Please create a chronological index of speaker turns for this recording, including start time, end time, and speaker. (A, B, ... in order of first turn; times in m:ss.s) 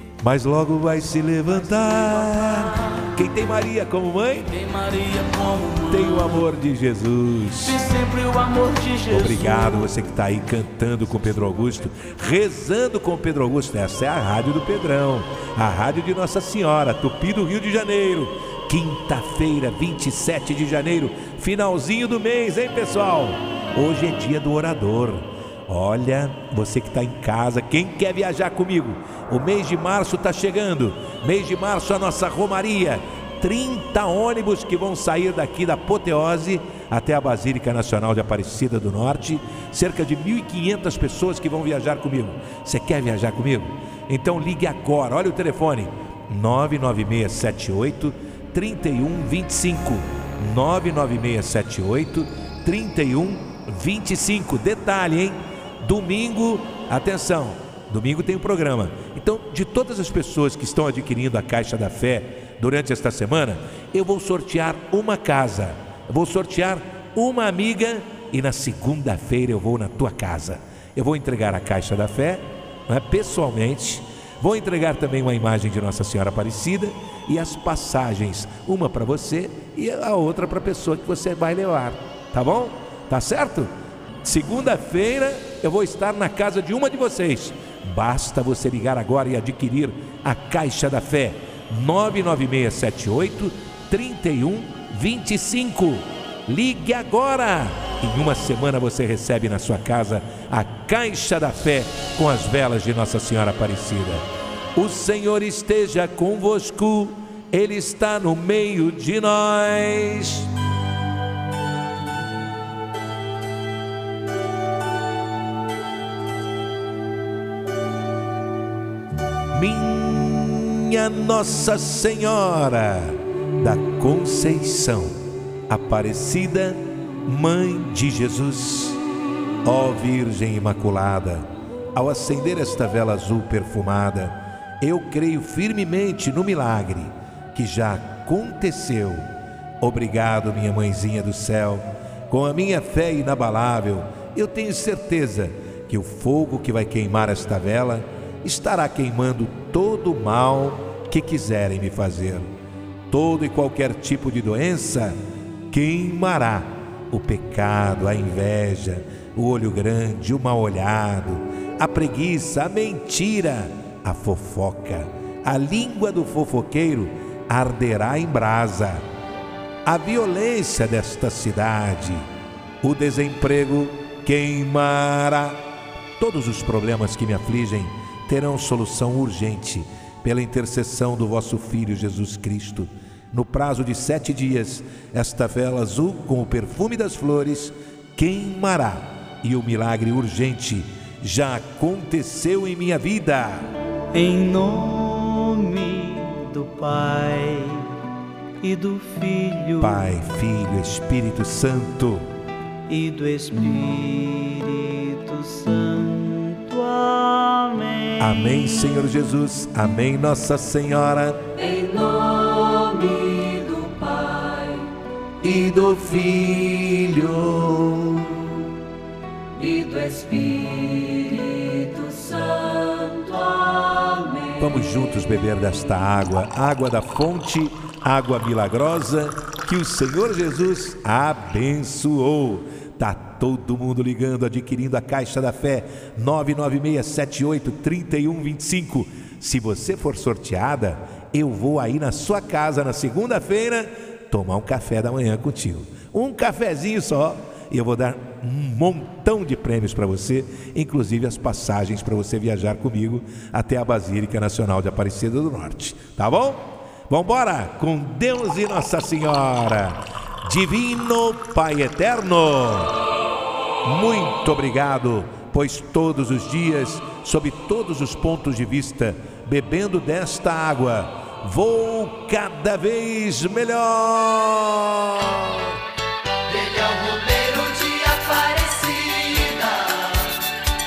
0:00.2-0:04.5 A
0:04.6-0:06.4 B
0:05.9-0:07.8 A
0:07.6-0:09.9 B
0:09.1-1:23.7 A
1:24.2-1:44.2 A
1:44.8-1:50.5 A
1:59.5-2:09.0 A
2:09.6-2:19.3 A
2:19.8-2:32.5 A
2:33.1-2:35.2 A
2:35.7-2:49.0 A
2:49.8-2:52.3 A
2:52.8-2:55.6 A
2:56.2-3:13.7 A
3:14.1-3:18.0 B
3:18.6-3:20.0 B
3:19.8-3:22.3 A
3:22.9-3:28.2 B
3:28.2-3:31.7 A
3:31.7-3:34.9 C
3:32.7-3:33.6 B
3:35.4-3:38.6 A
3:39.6-3:40.6 C
3:40.6-3:41.8 B
3:41.5-3:42.9 C
3:42.8-3:44.5 B
3:44.5-4:22.9 A
4:23.8-4:35.8 A
4:36.5-4:40.0 C